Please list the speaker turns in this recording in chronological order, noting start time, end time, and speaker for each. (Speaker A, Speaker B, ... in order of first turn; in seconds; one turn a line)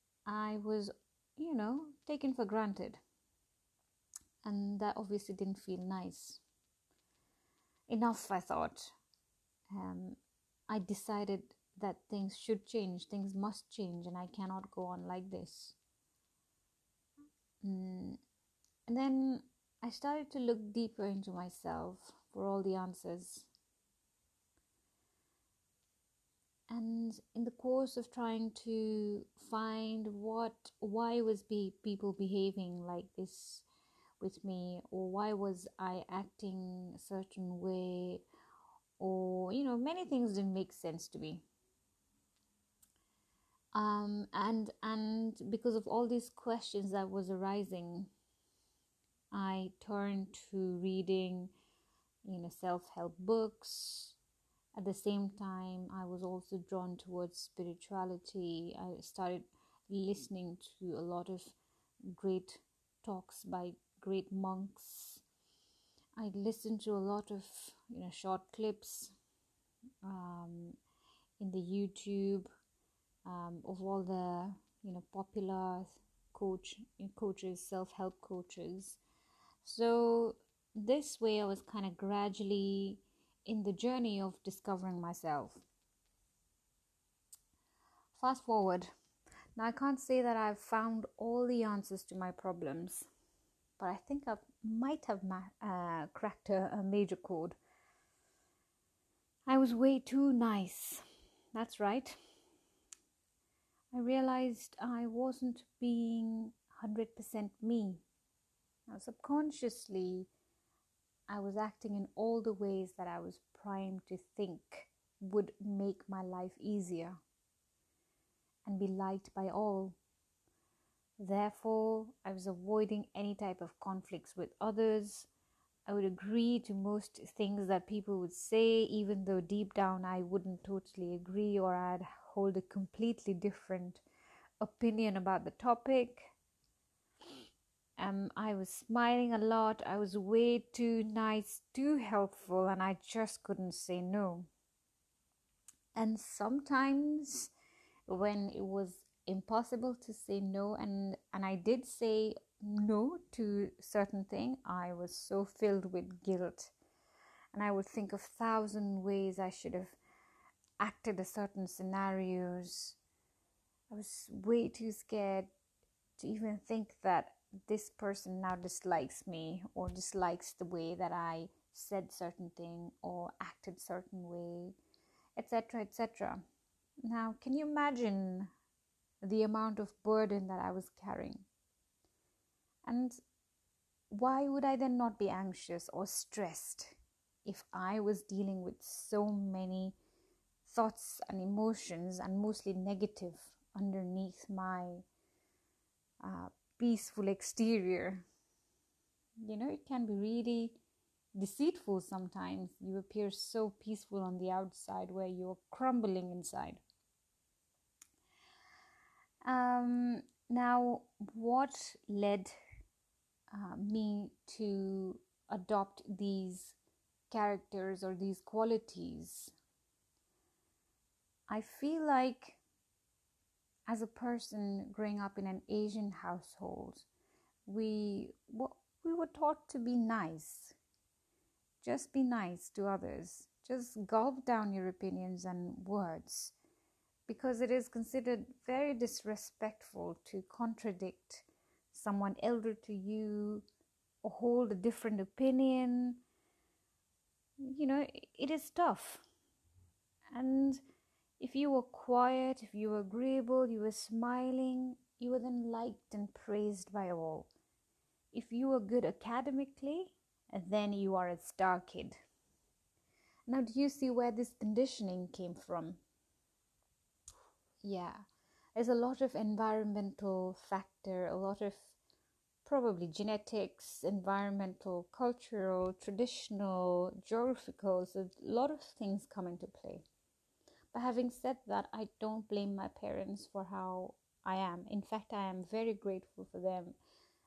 Speaker A: 0.2-3.0
Speaker A: 4.4-6.4
Speaker A: 7.9-8.9
Speaker A: 9.7-15.8
Speaker A: 17.6-18.2
Speaker A: 18.9-23.5
Speaker A: 26.7-33.6
Speaker A: 34.2-38.2
Speaker A: 39.0-41.4
Speaker A: 43.7-48.1
Speaker A: 49.3-51.5
Speaker A: 52.2-54.2
Speaker A: 54.8-61.5
Speaker A: 62.1-65.2
Speaker A: 66.2-69.1
Speaker A: 70.0-70.8
Speaker A: 71.4-72.5
Speaker A: 73.2-79.0
Speaker A: 79.6-85.6
Speaker A: 88.1-88.9
Speaker A: 89.5-93.1
Speaker A: 93.8-97.5
Speaker A: 99.5-101.0
Speaker A: 101.5-102.2
Speaker A: 103.9-108.0
Speaker A: 108.9-110.3
Speaker A: 111.3-117.2
Speaker A: 118.6-120.0
Speaker A: 121.2-125.3
Speaker A: 125.8-134.0
Speaker A: 134.6-136.3
Speaker A: 138.0-144.5
Speaker A: 145.9-147.5
Speaker A: 148.1-156.7
Speaker A: 157.5-159.9
Speaker A: 160.8-163.0
Speaker A: 163.9-165.5
Speaker A: 166.2-174.8
Speaker A: 175.3-176.4
Speaker A: 177.0-178.5
Speaker A: 179.2-181.4
Speaker A: 182.8-183.2
Speaker A: 184.1-189.9
Speaker A: 190.6-195.0
Speaker A: 196.2-198.2
Speaker A: 199.4-200.8
Speaker A: 201.3-206.8
Speaker A: 209.4-212.6
Speaker A: 213.5-216.8
Speaker A: 217.3-219.5
Speaker A: 221.5-222.6
Speaker A: 223.9-227.1
Speaker A: 227.7-230.8
Speaker A: 231.8-236.5
Speaker A: 237.3-243.6
Speaker A: 244.2-246.2
Speaker A: 247.6-249.2
Speaker A: 250.3-250.8
Speaker A: 251.4-257.5
Speaker A: 258.3-262.1
Speaker A: 263.5-266.0
Speaker A: 267.8-268.2
Speaker A: 268.8-271.9
Speaker A: 272.6-280.0
Speaker A: 280.9-286.9